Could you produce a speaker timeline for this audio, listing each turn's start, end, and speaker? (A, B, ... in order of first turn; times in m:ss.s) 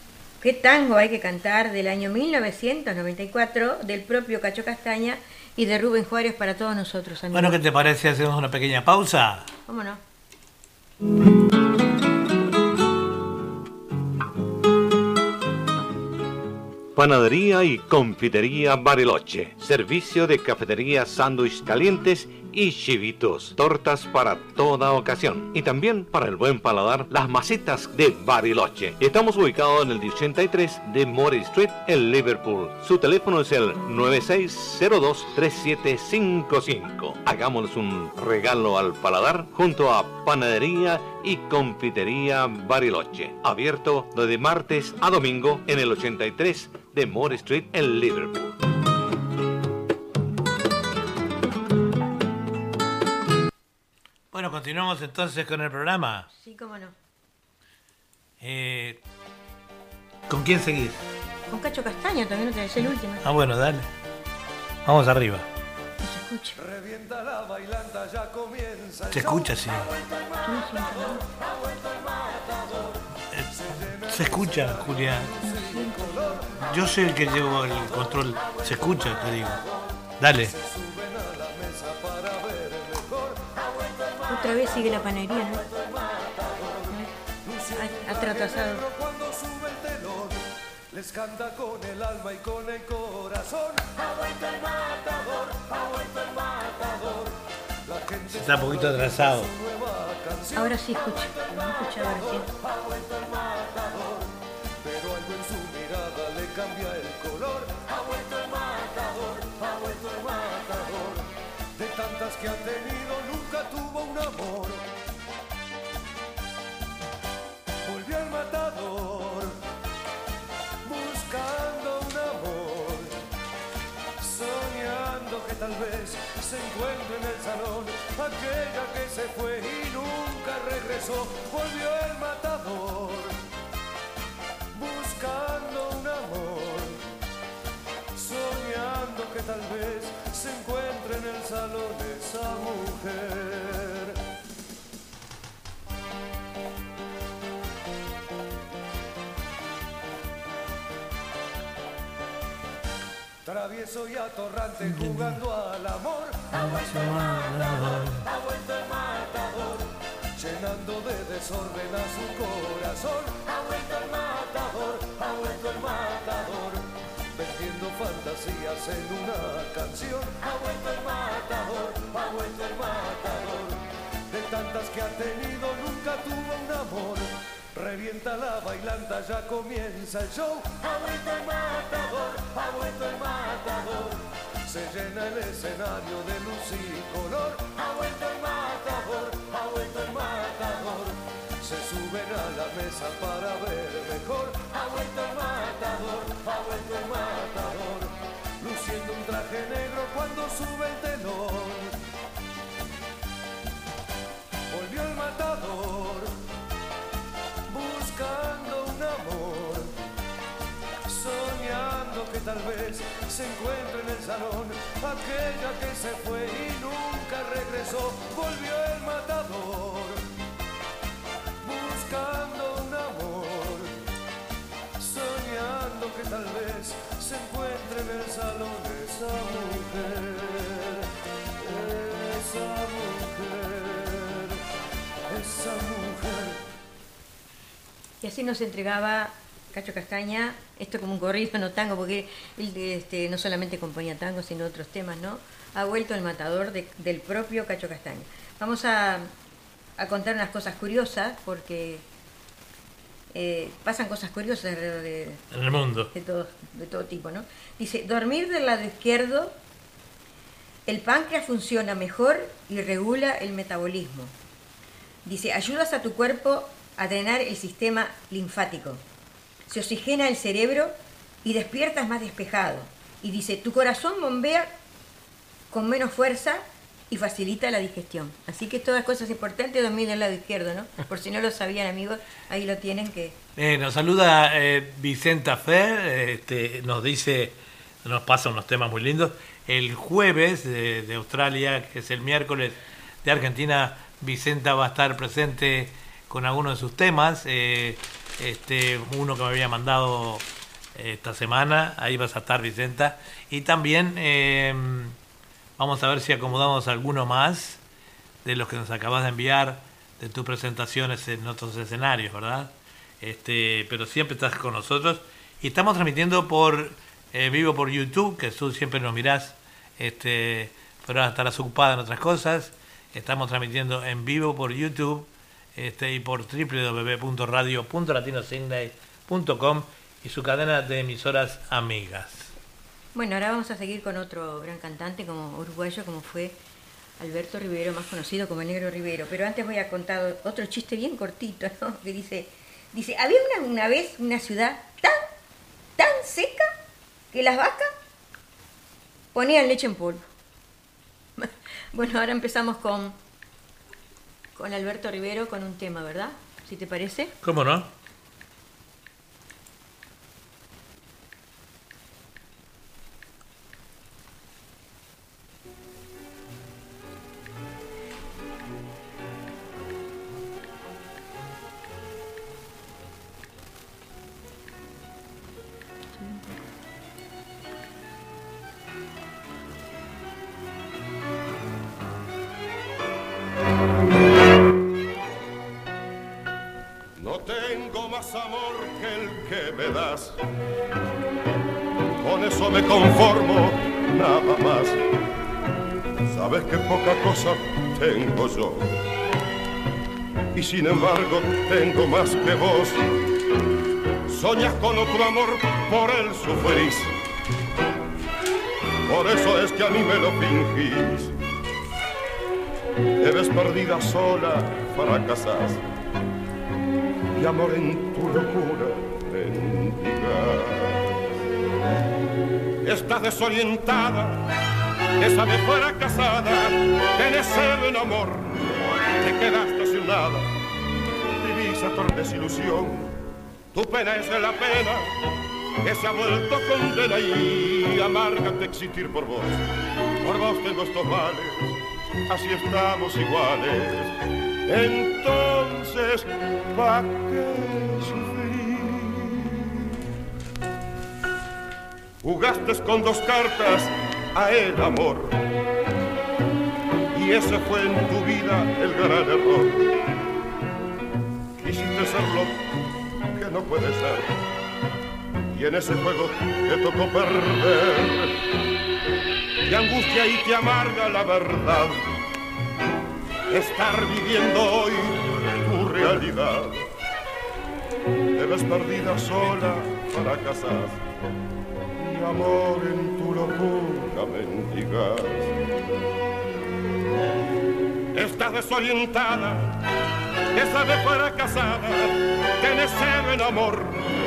0:00.4-0:07.6 A
0:07.3-0:09.5 B
0:09.7-0:10.0 A
0:17.0-0:48.6 C
0:54.3-0:56.3 B
0:56.3-0:57.0 A
0:58.4-0:59.0 B
1:00.3-1:01.0 B
1:01.5-1:03.2 A
1:03.2-1:03.9 B
1:04.8-1:05.5 B
1:06.0-1:06.6 A
1:06.6-1:16.9 D
1:09.1-1:09.9 B
1:10.4-1:11.2 A
1:14.1-1:15.3 B
1:15.4-1:16.3 A
1:16.6-1:19.6 B
1:18.0-1:54.9 D
1:20.2-1:20.5 B
1:24.3-1:25.7 A
1:27.7-1:28.8 A
1:38.3-1:39.5 B
1:40.6-1:42.5 A
1:57.8-1:59.5 D
2:00.8-2:03.2 D
2:04.2-2:13.4 D
2:14.7-2:17.0 D
2:18.2-2:24.2 D
2:33.4-3:22.0 D
2:34.8-2:35.4 B
2:36.6-2:38.2 B
3:24.7-3:26.3 D
3:27.7-3:29.9 D
3:31.1-3:40.2 D
3:41.6-3:43.9 D
3:45.0-3:51.0 D
3:51.6-3:54.6 D
3:55.3-3:56.6 D
3:58.2-4:09.3 A
4:10.0-4:12.0 A
4:13.3-4:15.4 A
4:15.5-4:16.1 B
4:16.1-4:19.5 A
4:20.9-4:24.3 A
4:25.2-4:29.0 A
4:29.7-4:30.9 A
4:31.4-4:34.7 A
4:35.7-4:43.4 A
4:43.6-5:00.4 B
5:01.0-5:05.2 B
5:05.8-5:07.8 B
5:08.4-5:32.5 B
5:33.2-5:36.6 A
5:37.2-5:45.2 A
5:46.0-5:46.7 A
5:47.3-5:47.9 A
5:49.3-5:50.3 A
5:51.4-5:53.2 A
5:54.6-5:57.3 A
5:57.4-5:57.9 B
6:27.2-6:30.4 E
6:32.2-6:35.0 E
6:36.3-6:38.9 E
6:40.6-6:43.1 E
6:44.3-6:47.1 E
6:49.1-6:51.3 E
6:53.2-6:55.8 E
6:57.4-7:01.1 E
7:02.8-7:04.4 E
7:05.2-7:08.6 E
7:09.2-7:10.5 E
7:11.4-7:13.1 E
7:13.7-7:15.1 E
7:15.8-7:19.6 E
7:20.2-7:24.1 E
7:24.7-7:29.7 E
7:32.2-7:35.4 E
7:37.1-7:39.8 E
7:41.6-7:42.6 E
7:43.3-7:44.3 E
7:45.5-7:48.3 E
7:49.7-7:52.1 E
7:53.5-7:56.9 E
7:55.1-7:56.3 B
7:58.4-8:01.0 E
8:02.0-8:05.5 E
8:08.1-8:09.8 E
8:10.5-8:14.0 E